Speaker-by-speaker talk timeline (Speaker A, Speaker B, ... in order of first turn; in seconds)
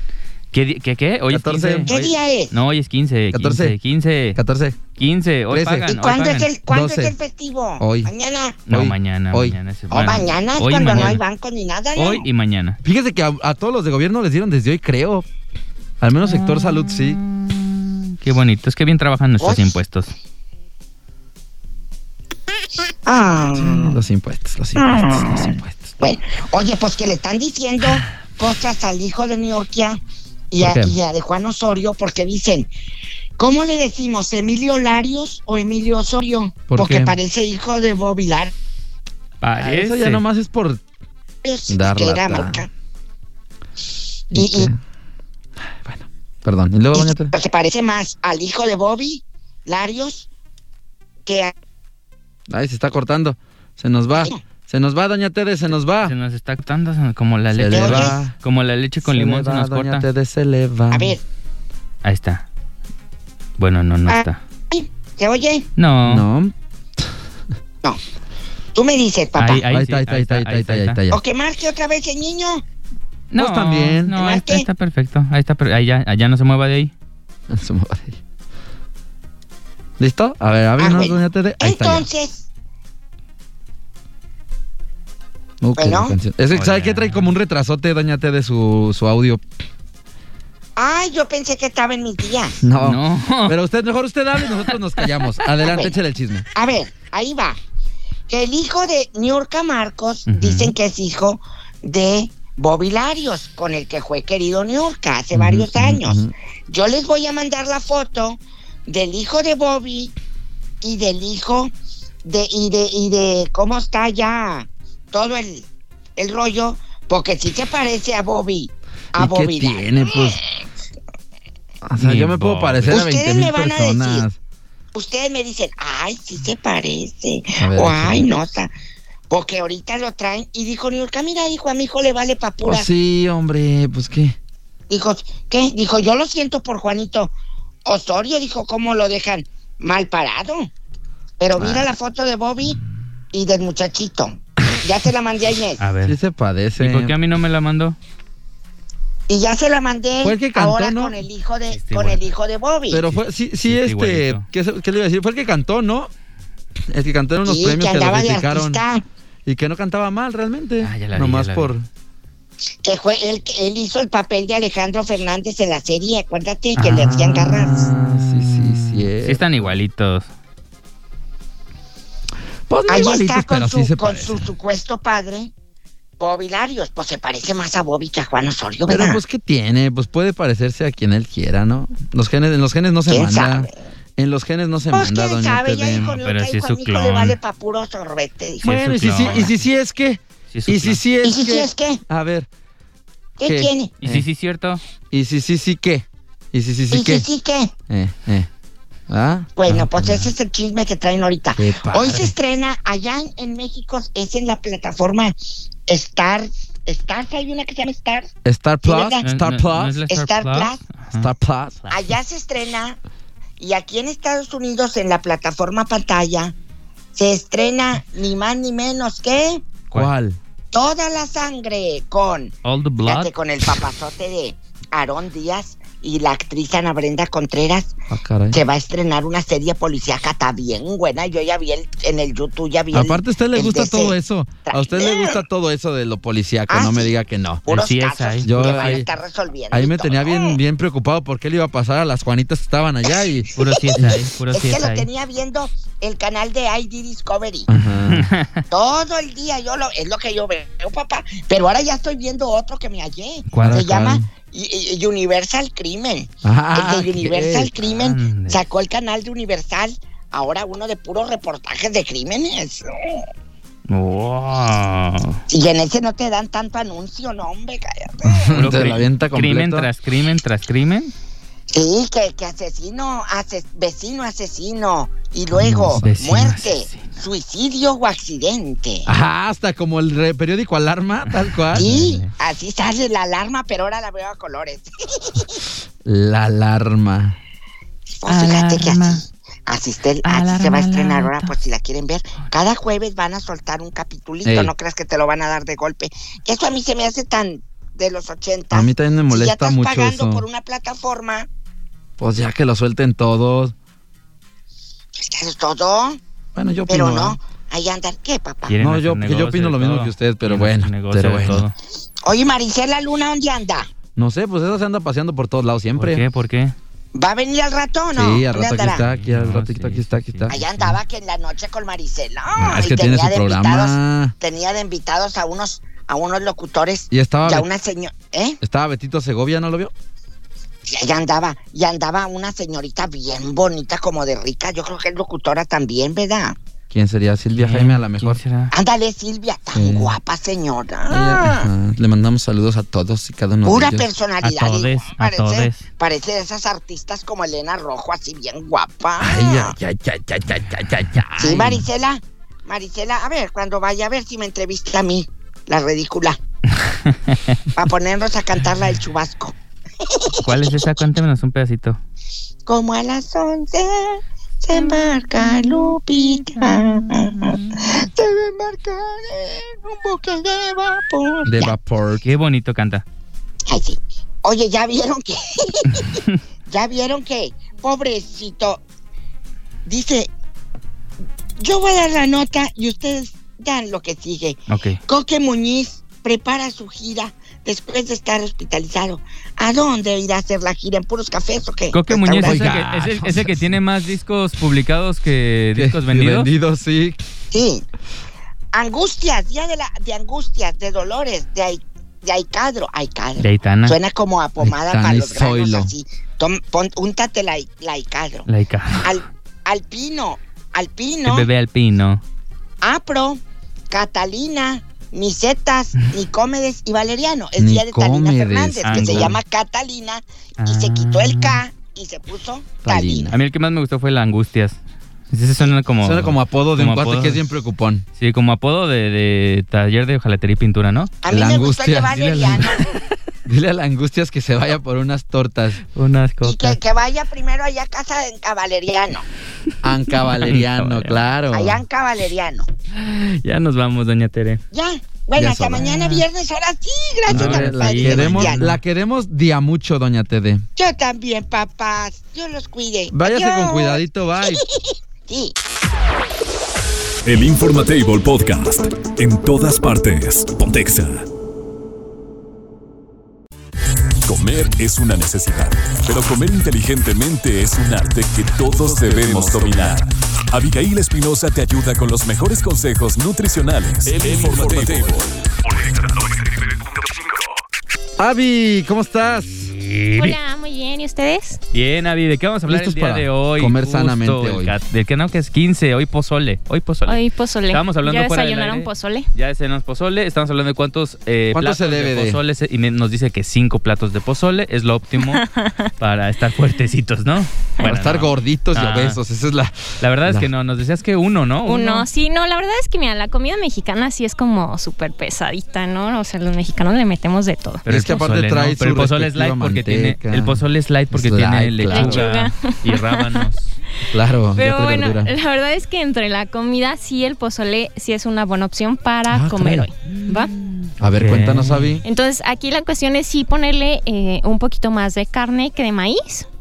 Speaker A: 0.5-4.4, 4.9-6.5, 8.7-11.2, 11.9-12.8, 16.2-20.1, 39.4-40.2, 56.0-60.1, 62.0-62.4, 63.6-64.4, 65.8-66.2, 69.3-71.0, 73.3-76.9, 86.5-87.3, 92.8-93.5, 94.4-95.3, 100.2-100.8, 122.0-123.0, 145.8-146.2, 146.8-147.9, 151.7-152.2, 153.1-154.5, 160.8-161.7, 166.8-170.3, 186.0-187.4, 188.6-189.6, 190.5-191.0, 194.0-194.8, 199.7-200.3, 209.2-211.3, 222.6-223.3, 237.7-239.0, 243.5-245.1, 248.1-248.6, 253.5-253.8, 257.8-258.6, 263.9-265.4, 268.6-271.1, 275.7-277.1, 281.3-282.3, 288.2-289.2, 290.2-291.5, 308.7-311.7, 315.9-316.8, 319.0-321.0, 337.6-338.7, 344.4-345.8, 357.1-357.4, 360.4-362.0, 372.2-373.0, 376.0-376.3, 384.7-385.0, 391.9-396.5, 403.4-404.0, 408.4-409.2, 411.2-412.2, 418.8-419.4, 420.6-421.6, 423.3-424.8, 425.3-427.6, 428.1-431.1, 432.1-433.0, 435.9-436.8, 440.1-441.2, 442.9-444.6, 445.7-446.2, 447.3-448.8, 479.7-480.4, 481.7-495.4, 496.0-499.2, 500.0-502.1, 507.8-513.7, 520.1-522.0
Speaker B: 1.3-1.9, 3.3-3.7, 4.3-4.8, 5.5-5.9, 6.7-7.2, 7.8-8.1, 8.7-9.6, 10.9-11.2, 12.8-15.2, 16.0-17.2, 23.6-25.9, 30.6-31.0, 36.7-37.2, 39.6-40.8, 41.7-42.6, 44.3-44.8, 45.6-47.3, 52.5-56.1, 57.5-58.3, 59.0-61.1, 66.0-66.5, 69.4-71.2, 73.3-74.1, 77.5-78.2, 80.0-82.1, 85.6-89.4, 92.6-96.5, 105.3-106.3, 119.1-120.4, 121.8-124.4, 127.6-128.3, 132.6-134.3, 141.6-141.8, 146.0-147.1, 150.2-151.2, 152.9-156.1, 156.9-158.8, 159.4-161.9, 166.8-169.7, 172.7-174.5, 178.9-186.1, 188.6-192.5, 193.4-194.3, 195.1-197.2, 197.9-198.5, 199.1-199.5, 201.6-202.3, 208.4-210.0, 211.1-211.9, 219.9-220.4, 228.1-228.6, 232.9-237.7, 238.4-239.1, 239.7-244.2, 247.7-248.3, 253.6-254.3, 256.4-257.7, 268.2-269.9, 275.6-276.3, 279.1-282.1, 286.0-287.4, 294.4-294.7, 298.7-300.4, 302.2-303.7, 306.5-307.4, 308.8-311.6, 314.1-316.2, 318.1-320.6, 322.6-324.3, 327.1-327.7, 328.6-329.9, 336.9-338.4, 339.7-340.1, 341.1-344.1, 349.2-351.8, 371.4-372.3, 392.4-393.7, 395.8-397.2, 404.6-405.9, 417.6-419.4, 422.8-423.4, 426.0-428.0, 431.3-432.6, 433.4-435.8, 439.8-441.8, 445.4-445.9, 447.3-450.6, 453.1-454.6, 478.2-479.7, 482.7-484.7, 491.5-492.4, 497.8-500.5, 507.9-512.2, 514.1-515.3, 519.3-519.9, 521.0-522.0
Speaker C: 1.9-2.5, 5.9-8.6, 9.9-12.2, 19.4-19.8, 23.1-24.0, 24.8-30.0, 30.5-32.7, 33.4-38.5, 41.4-42.7, 44.3-44.7, 46.9-50.3, 51.2-51.5, 54.1-54.4, 57.6-58.2, 60.9-61.2, 64.1-65.7, 68.7-69.6, 71.1-72.6, 74.1-74.7, 80.8-82.5, 85.8-86.2, 90.8-92.6, 95.7-96.0, 96.5-97.6, 98.3-110.1, 110.8-111.7, 112.2-120.4, 122.9-124.2, 124.9-128.7, 129.3-132.9, 134.9-137.3, 137.8-140.7, 141.4-142.8, 143.3-145.8, 149.3-153.1, 157.4-159.0, 162.8-167.9, 172.9-175.5, 176.2-179.2, 183.1-183.7, 184.9-189.5, 191.2-192.0, 193.4-193.9, 196.9-197.7, 199.6-208.3, 208.8-209.2, 210.1-210.8, 211.9-213.0, 213.6-216.5, 217.1-219.6, 220.7-222.5, 223.0-227.9, 228.5-234.2, 234.7-235.4, 236.7-237.1, 237.7-240.6, 243.1-247.7, 248.7-263.2, 265.5-268.9, 271.7-279.1, 281.7-285.6, 288.1-301.5, 305.1-306.2, 306.9-308.7, 312.2-313.9, 317.1-319.0, 320.5-328.6, 330.8-336.6, 338.7-341.7, 343.6-349.8, 351.4-356.4, 357.7-359.5, 360.1-360.9, 362.6-371.7, 373.7-378.8, 379.9-380.3, 381.6-392.9, 397.5-397.8, 398.7-408.5, 409.0-411.5, 412.8-413.4, 413.9-423.3, 431.2-432.9, 436.4-439.2, 441.5-442.7, 444.7-448.6, 450.8-455.5
Speaker D: 457.2-461.2, 464.2-476.7
Speaker E: 480.2-481.6, 487.1-489.3, 495.3-495.9, 501.6-507.8, 511.9-513.5, 514.5-520.5, 522.0-526.5